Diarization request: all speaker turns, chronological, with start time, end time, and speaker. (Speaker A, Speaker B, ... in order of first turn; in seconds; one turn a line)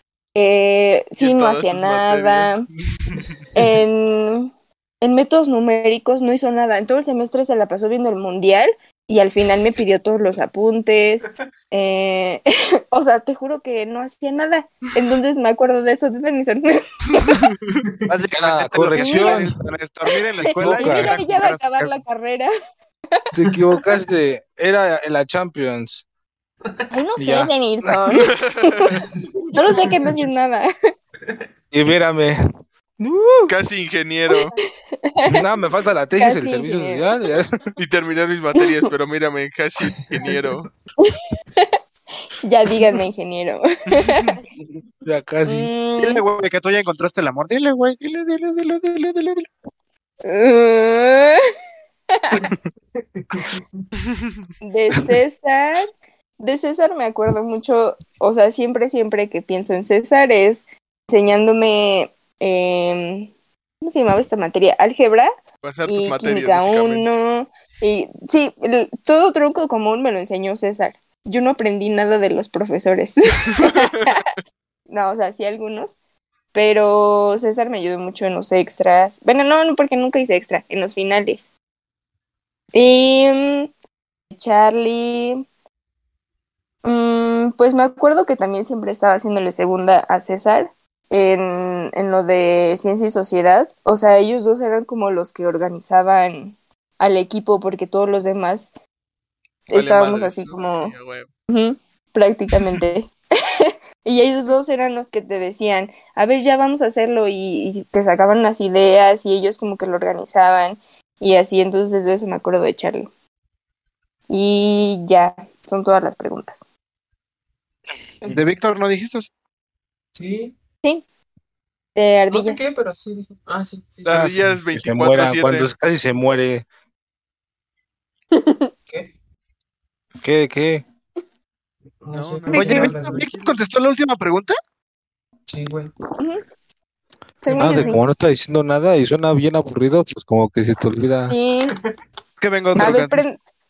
Speaker A: 0.3-2.6
Speaker B: 1.2-3.4
Speaker A: 3.5-17.4
Speaker B: 17.3-17.8
Speaker C: 18.1-22.0
Speaker D: 18.3-19.5
Speaker A: 18.9-19.4
Speaker A: 20.6-22.5
Speaker D: 20.6-21.1
Speaker D: 23.3-26.0
Speaker A: 26.9-30.7
Speaker D: 27.2-28.0
Speaker B: 28.3-29.1
Speaker D: 31.7-32.4
Speaker D: 33.0-33.5
Speaker B: 33.5-34.5
Speaker A: 35.0-35.4
Speaker D: 35.3-37.7
Speaker A: 36.1-37.2
Speaker B: 37.8-40.7
Speaker E: 39.9-40.5
Speaker A: 41.0-41.8
Speaker A: 42.4-44.4
Speaker B: 43.9-44.3
Speaker D: 44.6-45.7
Speaker A: 45.4-46.2
Speaker C: 46.0-49.5
Speaker A: 50.2-51.4
Speaker A: 52.2-52.5
Speaker D: 52.3-52.6
Speaker E: 52.9-53.9
Speaker A: 54.6-55.9
Speaker A: 56.4-63.3
Speaker A: 63.8-65.3
Speaker B: 65.6-67.1
Speaker A: 65.9-74.3
Speaker B: 73.6-73.9
Speaker A: 74.9-75.9
Speaker A: 76.5-81.5
Speaker A: 82.7-83.7
Speaker A: 84.3-85.4
Speaker A: 86.8-98.7
Speaker A: 99.7-100.9
Speaker B: 99.7-101.3
Speaker A: 101.5-113.1
Speaker A: 114.3-116.6
Speaker C: 118.3-119.3
Speaker E: 120.2-120.5
Speaker A: 122.0-122.6
Speaker E: 122.3-124.6
Speaker B: 124.0-125.7
Speaker D: 124.7-126.7
Speaker A: 128.3-128.7
Speaker D: 130.2-130.8
Speaker E: 132.0-133.4
Speaker B: 132.1-133.5
Speaker A: 132.5-132.9
Speaker C: 132.5-134.5
Speaker E: 135.5-135.9
Speaker A: 136.2-136.4
Speaker A: 137.4-138.0
Speaker D: 137.5-141.3
Speaker A: 141.3-141.7
Speaker C: 142.4-143.2
Speaker A: 142.8-143.4